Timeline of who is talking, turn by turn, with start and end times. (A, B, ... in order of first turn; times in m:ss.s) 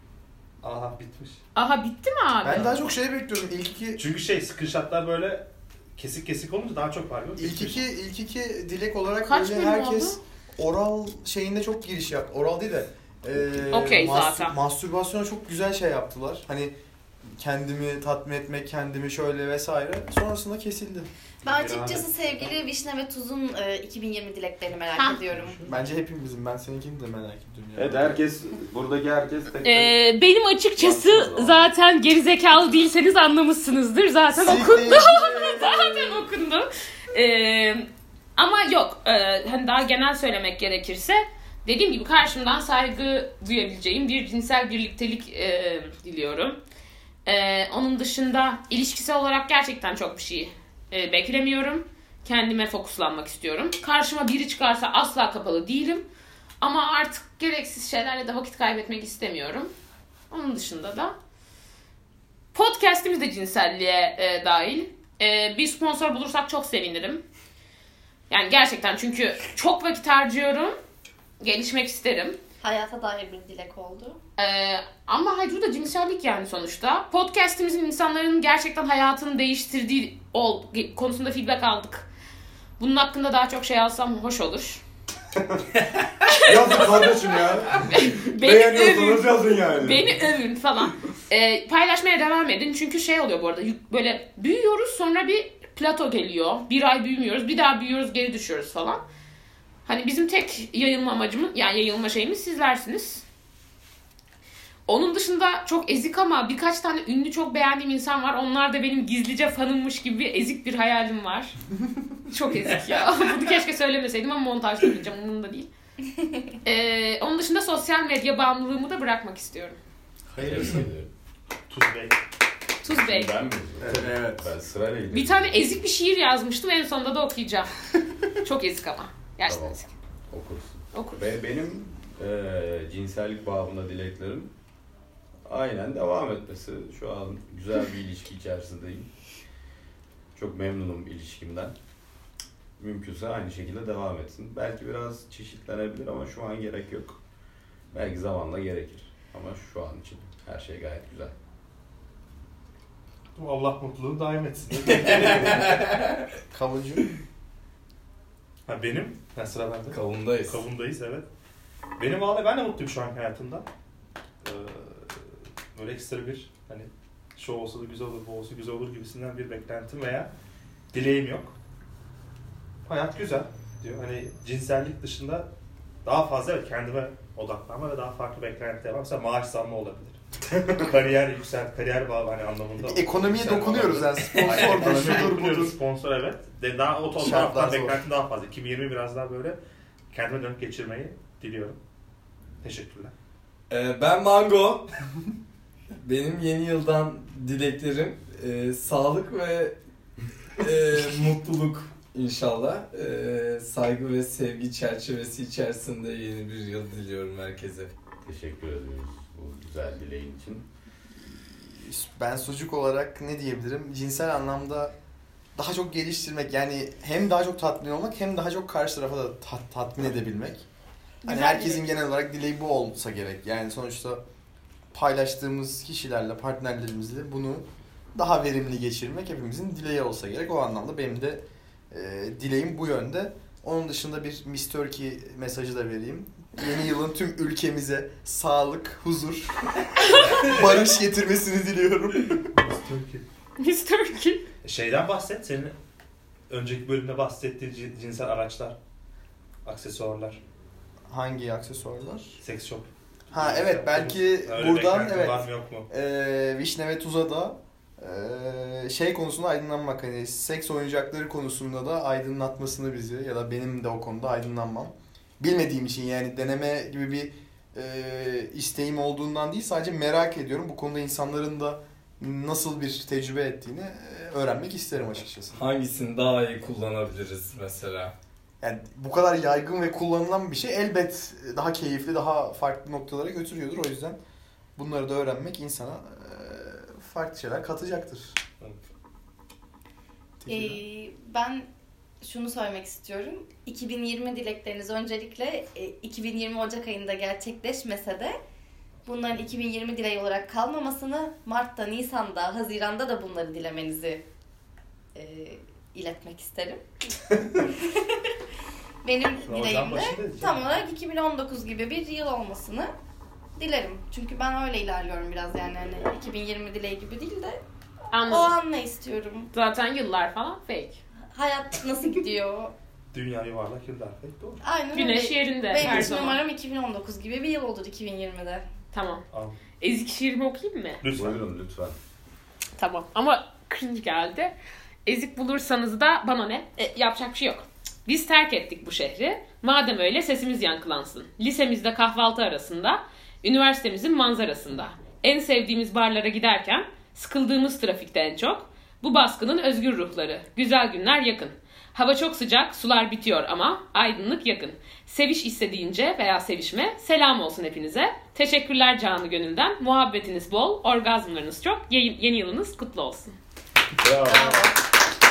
0:00.6-0:01.4 A
0:01.6-0:02.8 B
0:02.4-0:04.0 C
0:04.0-0:07.8 A
0:07.4-0:16.7 C
0:09.2-0:10.2 B
0:13.7-0:14.5 B
0:17.4-0:21.1 C
0:21.4-0:25.6 D
0:21.4-0:22.6 A
0:25.0-0:25.2 B
0:25.3-0:25.8 A
0:25.6-0:28.2 C
0:27.8-0:30.0 E
0:29.6-0:46.6 B
0:30.8-0:31.6 E
0:34.3-0:36.2 C
0:47.2-0:56.0 B
0:56.6-0:59.7 B
1:00.3-1:01.2 B
1:02.5-1:07.2 B
1:08.3-1:10.8 B
1:11.4-1:12.4 B
1:12.6-1:14.2 D
1:14.4-1:22.1 B
1:22.8-1:24.8 B
1:25.4-1:25.6 E
1:26.3-1:27.2 B
1:26.4-1:30.1 E
1:27.8-1:39.0 B
1:39.8-1:43.2 B
1:44.8-1:51.6 B
1:52.3-1:55.7 B
1:56.6-1:59.8 B
2:00.3-2:00.9 C
2:00.4-2:01.1 E
2:01.7-2:02.2 A
2:02.8-2:03.4 B
2:02.8-2:05.8 E
2:03.8-2:04.4 C
2:05.1-2:07.7 B
2:08.4-2:09.9 B
2:09.4-2:14.5 E
2:10.9-2:11.2 B
2:15.4-2:19.1 E
2:20.4-2:21.7 E
2:22.8-2:27.2 E
2:27.9-2:31.3 E
2:33.4-2:35.8 A
2:34.9-2:36.2 F
2:36.5-2:37.0 C
2:38.7-2:41.2 A
2:39.9-2:40.6 F
2:42.0-2:43.7 A
2:44.4-2:45.2 A
2:45.7-2:50.3 A
2:50.9-2:51.5 A
2:52.8-2:55.5 A
2:56.0-3:00.2 A
3:00.7-3:09.6 A
3:02.8-3:05.8 C
3:04.3-3:05.1 F
3:07.2-3:08.0 C
3:10.1-3:11.8 A
3:12.6-3:13.1 A
3:13.7-3:14.9 F
3:16.0-3:19.8 F
3:20.6-3:27.9 F
3:28.2-3:30.7 E
3:31.2-3:34.9 C
3:35.6-3:40.6 C
3:41.2-3:41.9 B
3:41.2-3:44.2 C
3:44.9-3:59.8 C
4:00.2-4:00.8 A
4:00.4-4:02.5 C
4:02.5-4:03.2 A
4:03.6-4:04.4 B
4:04.6-4:05.7 A
4:06.5-4:08.8 A
4:09.6-4:10.4 A
4:11.1-4:12.4 C
4:12.4-4:15.9 A
4:13.3-4:35.6 C
4:35.5-4:38.1 F
4:38.6-4:44.2 C
4:44.8-4:48.4 C
4:50.4-4:50.8 C
4:50.5-4:51.7 D
4:52.2-4:58.4 D
4:59.0-5:04.2 D
5:05.1-5:06.8 D
5:09.0-5:12.9 D
5:09.4-5:10.8 A
5:13.6-5:17.6 D
5:18.1-5:18.6 B
5:18.2-5:19.5 D
5:19.5-5:21.0 B
5:21.3-5:22.7 D
5:23.1-5:24.6 A
5:24.6-5:28.6 D
5:24.9-5:26.4 B
5:28.9-5:29.2 B
5:29.3-5:29.6 A
5:29.8-5:31.0 B
5:31.0-5:31.4 A
5:31.1-5:32.0 E
5:32.8-5:34.5 B
5:35.0-6:03.3 B
6:04.0-6:04.7 E
6:04.2-6:04.8 D